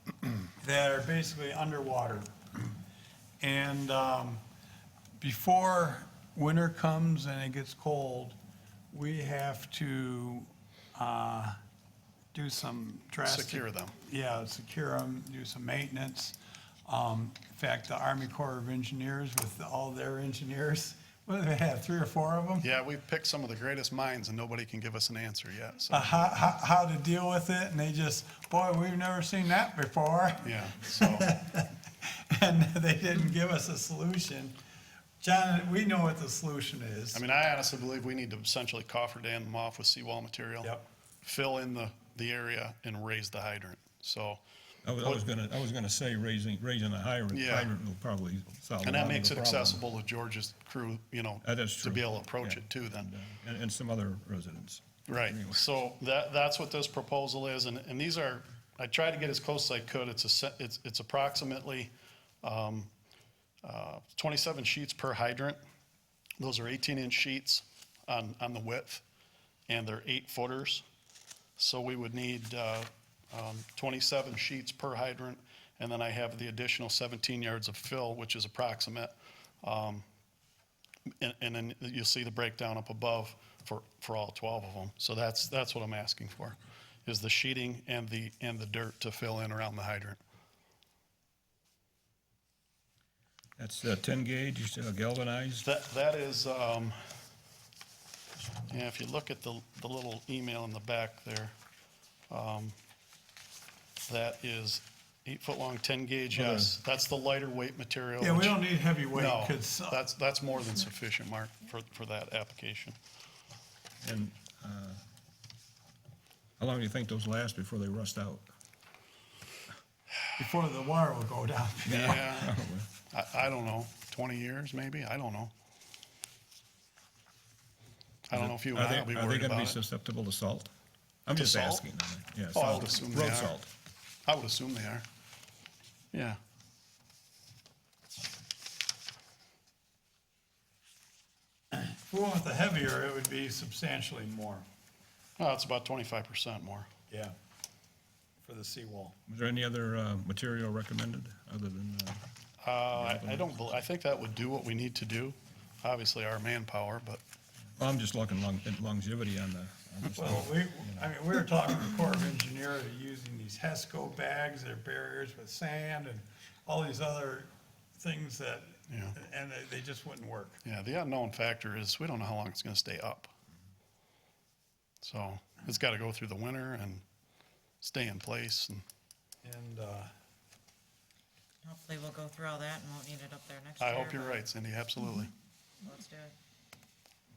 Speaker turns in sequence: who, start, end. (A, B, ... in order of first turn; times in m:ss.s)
0:00.6-0:02.3 A
0:03.4-0:04.4 A
0:05.2-0:08.4 A
0:08.9-0:11.6 A
0:12.3-0:22.6 A
0:13.2-0:13.9 B
0:22.6-0:26.4 B
0:25.9-0:34.6 A
0:30.4-0:31.4 B
0:35.2-0:37.2 A
0:37.1-0:44.4 B
0:44.8-0:49.8 C
0:47.3-0:47.7 B
0:48.8-0:53.1 B
0:51.4-0:55.6 C
0:55.1-1:01.9 B
1:02.4-1:02.9 B
1:03.6-1:05.6 B
1:06.4-1:09.0 B
1:09.7-1:10.8 B
1:11.6-1:20.0 B
1:21.2-1:30.2 B
1:33.6-1:35.6 C
1:35.6-1:37.0 B
1:38.7-1:41.5 B
1:42.3-1:42.7 B
1:44.1-1:48.6 B
1:46.3-1:46.8 C
1:48.2-1:50.0 A
1:49.1-1:53.0 B
1:54.0-1:55.0 C
1:56.6-1:58.4 C
2:00.4-2:02.0 A
2:01.8-2:02.9 C
2:01.9-2:02.5 B
2:03.1-2:05.5 B
2:08.3-2:09.8 B
2:08.3-2:10.7 C
2:11.2-2:13.7 C
2:11.3-2:11.8 B
2:12.5-2:13.5 B
2:14.2-2:15.0 B
2:16.1-2:16.4 B
2:21.7-2:24.6 A
2:25.4-2:26.9 B
2:28.4-2:29.2 A
2:29.3-2:32.2 C
2:32.6-2:37.2 B
2:32.9-2:33.5 C
2:37.8-2:41.1 C
2:40.2-2:50.6 A
2:48.9-2:49.1 B
2:50.6-2:53.3 B
2:55.0-2:57.0 B
2:57.8-2:58.8 B
2:59.4-3:00.1 A
3:01.6-3:04.4 D
3:03.8-3:05.3 B
3:05.8-3:06.4 D